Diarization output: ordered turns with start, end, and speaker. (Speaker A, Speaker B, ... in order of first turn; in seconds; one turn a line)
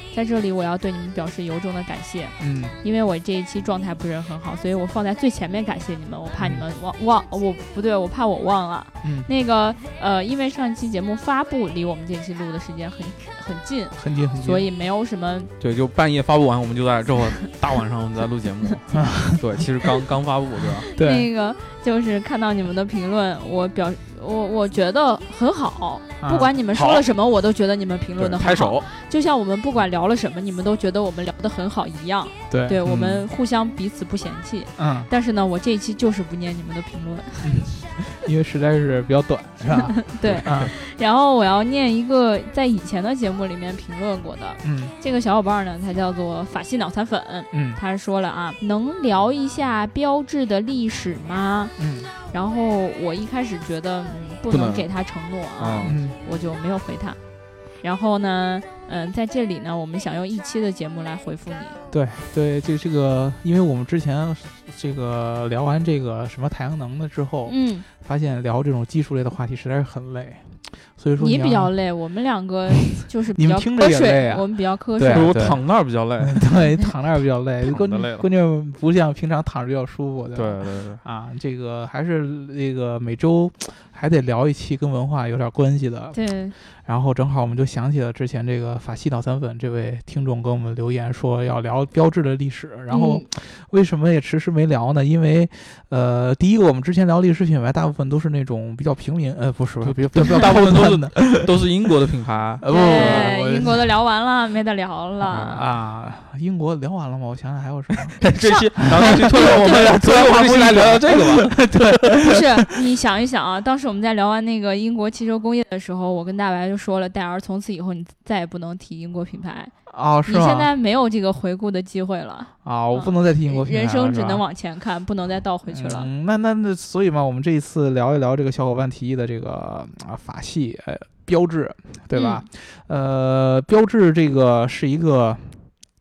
Speaker A: 0.1-15.5
Speaker B: 2.4-2.8
Speaker B: 6.4-6.6
Speaker B: 9.0-9.3
Speaker B: 14.0-14.7
Speaker C: 15.6-18.8
Speaker B: 18.9-19.4
Speaker C: 19.4-20.9
Speaker A: 20.8-37.6
Speaker B: 20.9-21.3
Speaker B: 26.2-26.5
Speaker C: 26.7-27.0
Speaker C: 28.2-28.8
Speaker B: 32.5-33.3
Speaker B: 34.8-35.1
Speaker B: 37.4-40.7
Speaker A: 39.7-51.7
Speaker C: 40.2-40.7
Speaker B: 44.6-44.9
Speaker B: 47.5-47.8
Speaker B: 51.8-52.1
Speaker A: 52.3-57.2
Speaker C: 54.5-54.9
Speaker C: 55.6-55.9
Speaker B: 55.8-56.2
Speaker A: 57.8-61.8
Speaker B: 61.9-71.7
Speaker A: 67.5-67.8
Speaker A: 71.2-75.5
Speaker B: 72.9-75.6
Speaker C: 75.1-76.5
Speaker B: 76.2-86.2
Speaker C: 77.6-78.2
Speaker C: 80.3-81.0
Speaker A: 86.1-86.5
Speaker B: 86.8-101.6
Speaker A: 92.9-93.2
Speaker C: 99.8-103.3
Speaker B: 102.6-103.9
Speaker A: 102.7-105.6
Speaker B: 105.3-108.2
Speaker C: 108.0-112.2
Speaker A: 108.3-109.8
Speaker B: 108.8-112.7
Speaker A: 112.1-119.7
Speaker B: 119.9-120.7
Speaker A: 120.3-126.1
Speaker B: 122.6-124.4
Speaker B: 125.7-135.5
Speaker A: 132.1-132.4